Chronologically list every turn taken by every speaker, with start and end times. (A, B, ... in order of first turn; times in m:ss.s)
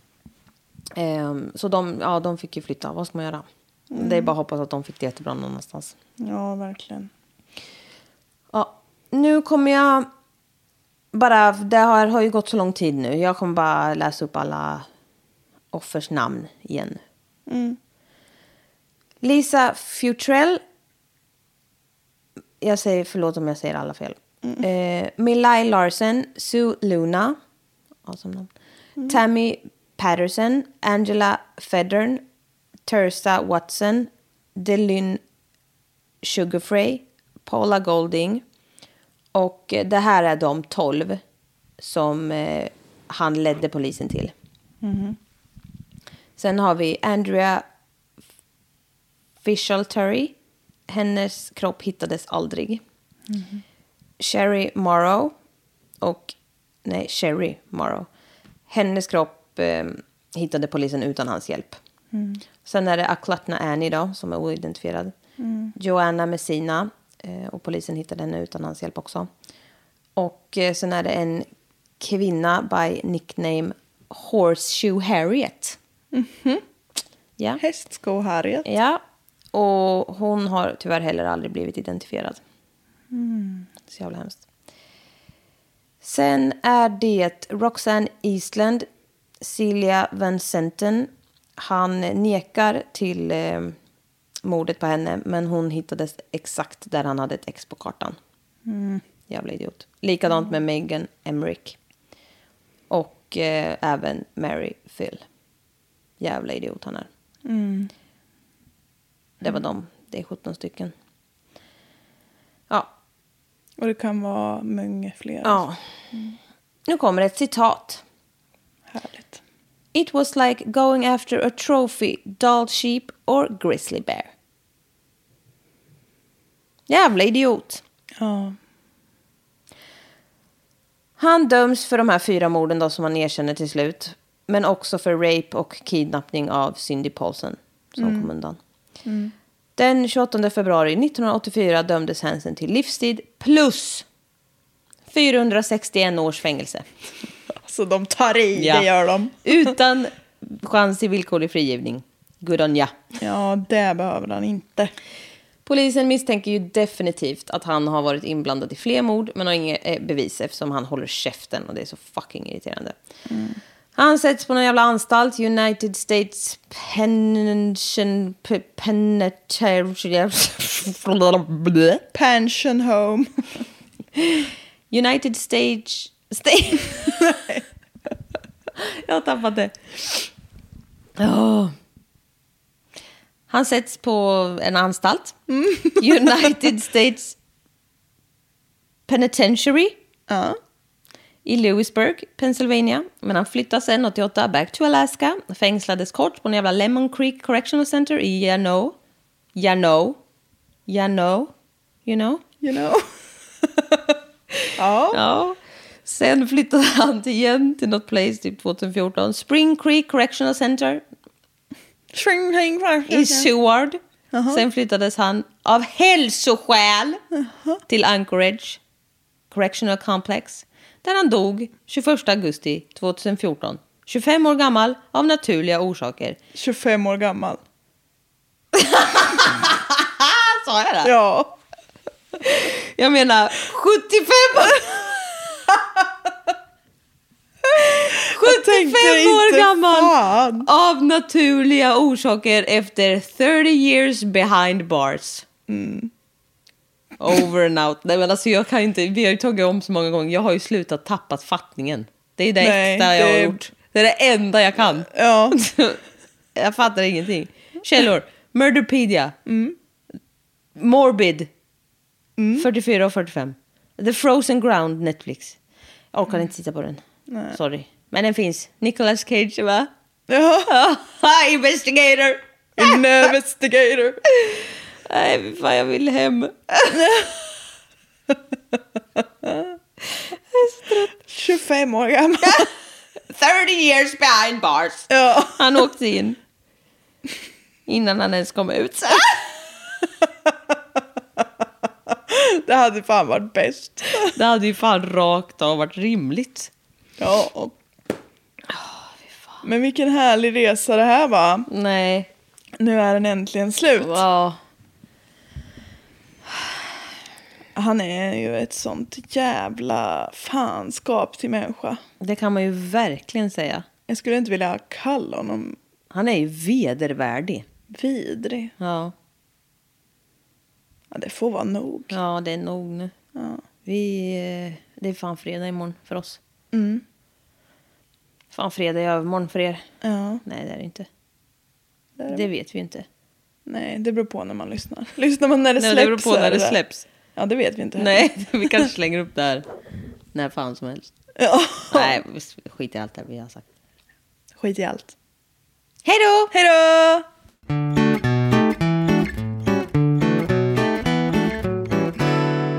0:01.0-0:06.0 A
0:03.9-0:04.3 B
0:06.2-0:07.1 B
0:08.5-0:10.1 A
0:11.1-0:14.9 A
0:15.7-0:17.0 A
0:17.5-0:17.8 B
0:19.2-0:20.6 A
0:22.6-0:27.4 A
0:28.0-0:28.5 A
0:29.1-0:32.2 A
0:32.9-0:35.2 A
0:36.2-0:38.4 A
0:39.3-0:41.2 A
0:41.8-0:44.3 A
0:44.8-0:45.2 B
0:46.4-0:47.6 A
0:49.4-0:50.4 A
0:50.9-0:52.8 A
0:53.3-0:53.6 B
0:54.2-0:55.3 A
0:56.0-0:58.1 A
0:58.7-1:01.8 A
1:02.1-1:02.4 B
1:02.6-1:05.1 A
1:05.4-1:05.7 B
1:05.8-1:09.3 A
1:10.2-1:11.5 A
1:12.0-1:15.8 A
1:16.1-1:16.6 B
1:17.6-1:18.7 B
1:18.6-1:19.0 A
1:19.5-1:22.4 A
1:23.1-1:23.7 B
1:23.9-1:24.4 A
1:26.0-1:28.9 A
1:29.4-1:33.8 A
1:34.4-1:38.2 A
1:38.7-1:39.0 B
1:39.3-1:41.8 A
1:42.9-1:45.2 A
1:46.2-1:47.1 A
1:47.4-1:47.9 B
1:49.4-1:50.9 A
1:53.8-1:56.4 B
1:55.4-1:55.8 A
1:56.9-1:58.0 A
1:58.9-1:59.4 B
1:59.9-2:04.3 A
2:06.9-2:07.8 A
2:08.2-2:08.6 B
2:11.2-2:18.6 A
2:18.0-2:18.3 B
2:19.0-2:19.3 B
2:19.8-2:24.0 A
2:25.1-2:26.9 A
2:27.6-2:29.7 B
2:28.6-2:28.9 A
2:29.4-2:33.0 A
2:33.2-2:34.9 B
2:35.6-2:43.0 A
2:43.3-2:43.6 B
2:44.0-2:52.0 A
2:52.1-2:53.6 B
2:54.2-2:57.3 A
2:57.2-2:57.6 B
2:58.8-3:00.3 A
3:01.2-3:01.7 A
3:03.5-3:05.4 A
3:05.5-3:06.1 B
3:06.0-3:07.4 A
3:09.1-3:10.0 A
3:10.3-3:10.6 B
3:11.4-3:19.0 A
3:19.6-3:20.2 A
3:20.9-3:21.5 A
3:22.0-3:22.4 A
3:22.6-3:23.1 B
3:24.8-3:25.2 B
3:25.1-3:31.0 A
3:32.1-3:33.5 B
3:33.1-3:37.2 A
3:34.3-3:34.6 B
3:37.4-3:37.8 B
3:37.9-3:38.8 A
3:39.5-3:46.4 A
3:46.6-3:47.6 B
3:48.7-3:51.1 A
3:51.0-3:51.5 B
3:52.4-3:55.2 A
3:57.7-4:00.7 B
3:57.7-4:05.4 A
4:05.7-4:06.1 B
4:07.2-4:16.0 A
4:12.6-4:13.6 B
4:15.1-4:15.6 B
4:16.6-4:19.4 A
4:19.4-4:19.8 B
4:20.8-4:21.5 A
4:22.4-4:22.7 B
4:22.6-4:25.6 A
4:26.1-4:29.9 A
4:27.3-4:27.6 B
4:30.3-4:30.7 B
4:30.6-4:33.0 A
4:32.8-4:34.2 B
4:34.4-4:37.1 A
4:36.9-4:37.4 B
4:40.5-4:41.1 A
4:41.2-4:42.7 B
4:42.4-4:42.7 A
4:43.3-4:46.4 A
4:45.1-4:45.8 B
4:47.9-4:49.5 A
4:52.1-4:54.3 B
4:54.3-4:56.7 A
4:57.2-4:57.7 B
4:58.7-4:59.6 A
4:59.6-5:01.7 B
5:01.7-5:02.3 A
5:02.8-5:04.2 B
5:04.0-5:04.6 A
5:07.7-5:12.0 B
5:12.2-5:13.9 A
5:14.1-5:15.8 B
5:16.1-5:17.6 A
5:17.9-5:18.7 B
5:18.8-5:19.1 A
5:21.1-5:22.2 B
5:22.1-5:23.1 A
5:23.3-5:23.6 B
5:23.8-5:26.4 A
5:26.7-5:27.0 B
5:28.5-5:29.9 A
5:30.0-5:30.4 B
5:30.4-5:31.1 A
5:32.2-5:32.4 B
5:32.3-5:33.1 A
5:33.6-5:36.8 B
5:35.8-5:37.0 A
5:37.4-5:38.9 B
5:38.0-5:39.7 A
5:40.3-5:41.1 A
5:41.4-5:42.2 B
5:41.9-5:43.6 A
5:44.6-5:45.1 B
5:46.0-5:46.5 A
5:46.5-5:47.3 B